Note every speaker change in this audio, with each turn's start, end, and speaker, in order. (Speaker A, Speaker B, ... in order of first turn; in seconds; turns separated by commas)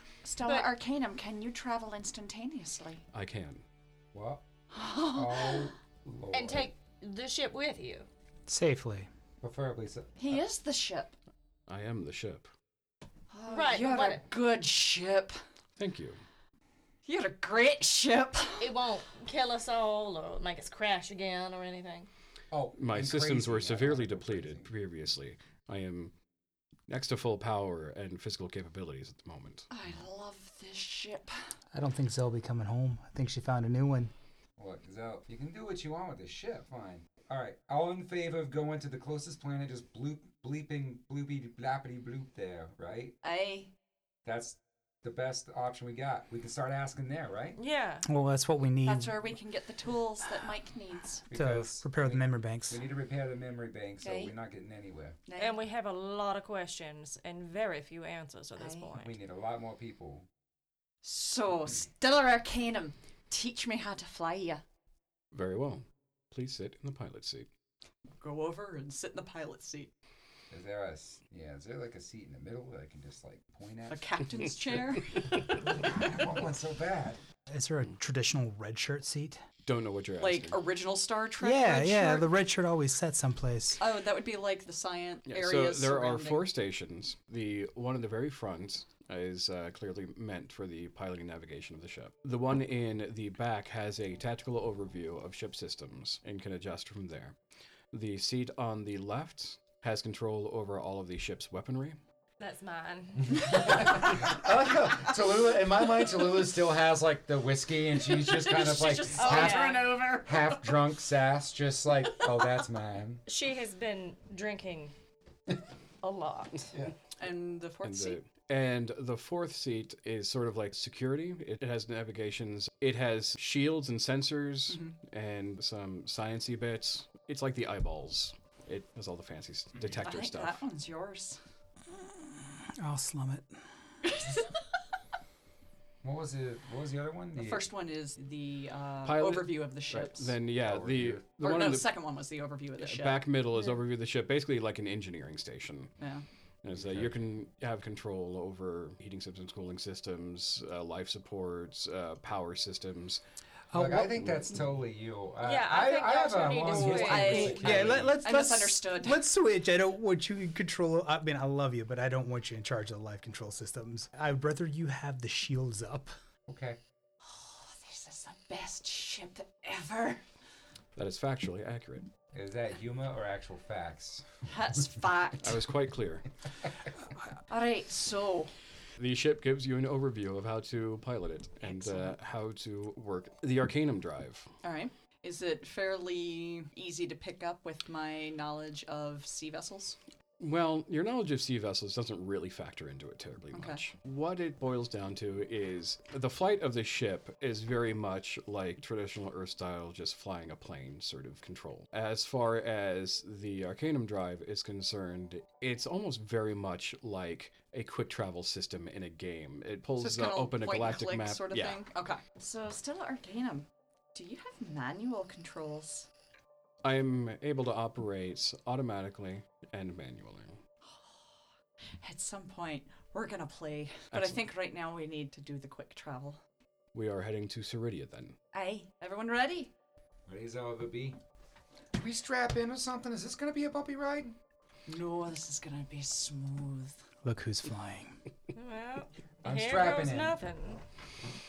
Speaker A: 0.2-3.0, Speaker B: 3.1-3.6, Speaker C: 4.1-4.4, Speaker A: 4.7-5.7, Speaker C: 5.1-6.7, Speaker D: 6.3-8.1, Speaker E: 8.5-9.1, Speaker C: 9.4-10.4, Speaker A: 10.2-11.1, Speaker B: 11.7-12.5, Speaker A: 13.3-15.3, Speaker D: 13.5-14.2, Speaker B: 15.8-16.2, Speaker A: 17.0-18.7, Speaker D: 18.6-22.1, Speaker C: 22.5-24.7, Speaker B: 22.8-26.1, Speaker B: 26.9-29.7, Speaker A: 29.7-31.3, Speaker E: 31.7-34.1, Speaker C: 34.6-43.1, Speaker A: 43.2-43.7, Speaker C: 44.2-47.6, Speaker D: 47.5-48.1, Speaker E: 48.0-49.2, Speaker A: 48.8-51.2, Speaker C: 51.3-55.2, Speaker E: 51.3-52.8, Speaker A: 54.0-54.3, Speaker A: 55.3-55.6, Speaker D: 55.4-59.1, Speaker A: 58.6-58.9, Speaker C: 58.9-60.3, Speaker A: 61.0-64.6, Speaker B: 65.3-67.5, Speaker A: 68.2-69.9, Speaker C: 70.5-74.0, Speaker A: 73.9-75.3, Speaker C: 75.3-77.2, Speaker E: 77.5-79.4, Speaker B: 79.7-80.6, Speaker A: 80.2-82.3, Speaker E: 81.4-83.8, Speaker A: 83.8-86.5, Speaker B: 85.2-97.3, Speaker B: 97.9-102.0, Speaker D: 102.4-104.0, Speaker C: 103.4-113.2, Speaker A: 108.0-110.6, Speaker D: 109.2-110.0, Speaker D: 113.3-114.9, Speaker D: 116.0-116.8, Speaker A: 117.2-118.2, Speaker B: 117.8-130.6, Speaker A: 124.7-125.0, Speaker A: 130.0-131.4, Speaker E: 131.9-133.6, Speaker A: 134.1-134.4, Speaker C: 136.0-137.7, Speaker A: 137.3-140.3, Speaker B: 139.0-141.9, Speaker C: 140.6-141.2, Speaker A: 141.4-143.2, Speaker B: 142.8-145.9, Speaker A: 146.0-146.2, Speaker B: 146.6-153.2, Speaker C: 146.7-147.1, Speaker E: 153.7-154.4, Speaker C: 153.7-158.1, Speaker D: 155.4-157.8, Speaker A: 156.7-159.2, Speaker E: 157.1-166.1, Speaker C: 166.5-166.8, Speaker A: 167.2-170.2, Speaker B: 170.9-172.1, Speaker C: 172.3-174.3, Speaker A: 174.5-175.6, Speaker B: 175.4-176.2, Speaker A: 177.5-178.5, Speaker B: 179.0-184.5, Speaker A: 181.6-182.1, Speaker A: 184.6-190.0, Speaker B: 190.4-211.8, Speaker A: 193.5-193.8, Speaker A: 210.0-216.1, Speaker B: 216.8-220.6, Speaker A: 222.0-226.4, Speaker B: 226.9-228.3, Speaker A: 228.5-229.7, Speaker C: 230.3-231.2, Speaker C: 231.9-234.3, Speaker A: 234.9-237.0, Speaker E: 237.2-238.2, Speaker D: 238.5-240.8, Speaker C: 239.4-240.4